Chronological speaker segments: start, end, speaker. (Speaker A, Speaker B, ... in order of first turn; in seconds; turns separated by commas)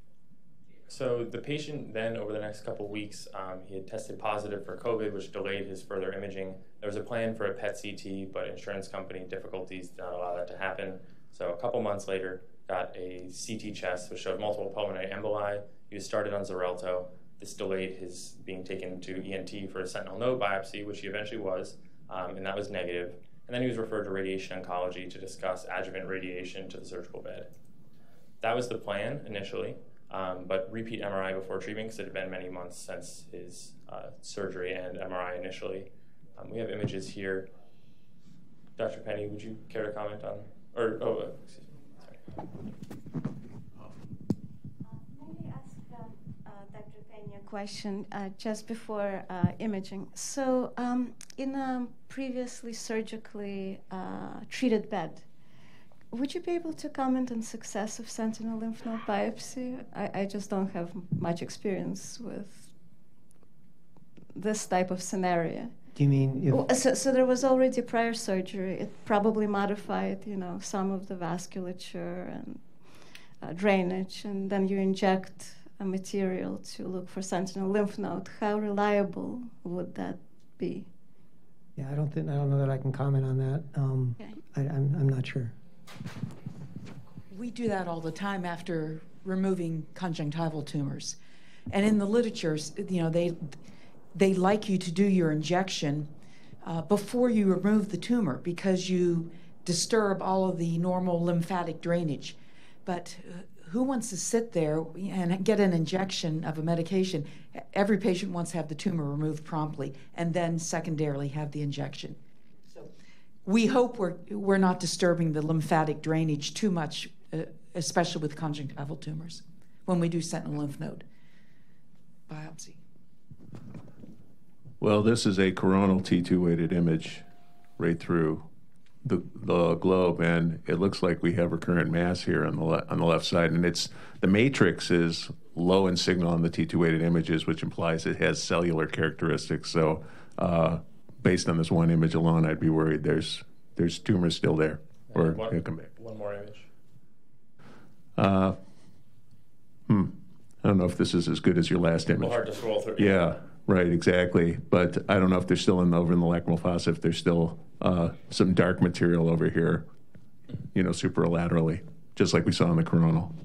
Speaker A: 0.9-27.5, Speaker A: 28.4-37.5, Speaker A: 38.8-42.2, Speaker B: 45.1-55.2, Speaker B: 56.1-62.7, Speaker B: 64.3-65.7, Speaker C: 65.9-66.6, Speaker B: 66.5-72.6, Speaker B: 73.4-80.9, Speaker C: 81.8-85.5, Speaker D: 87.3-91.2, Speaker D: 91.7-93.6, Speaker D: 94.1-96.1, Speaker D: 96.6-112.2, Speaker D: 113.4-121.0, Speaker D: 122.3-122.8, Speaker E: 124.8-127.2, Speaker E: 127.8-128.5, Speaker E: 129.0-145.9, Speaker A: 145.1-146.7, Speaker E: 148.2-148.6, Speaker E: 149.9-152.4, Speaker A: 152.2-153.2, Speaker E: 153.0-159.8, Speaker E: 160.7-163.3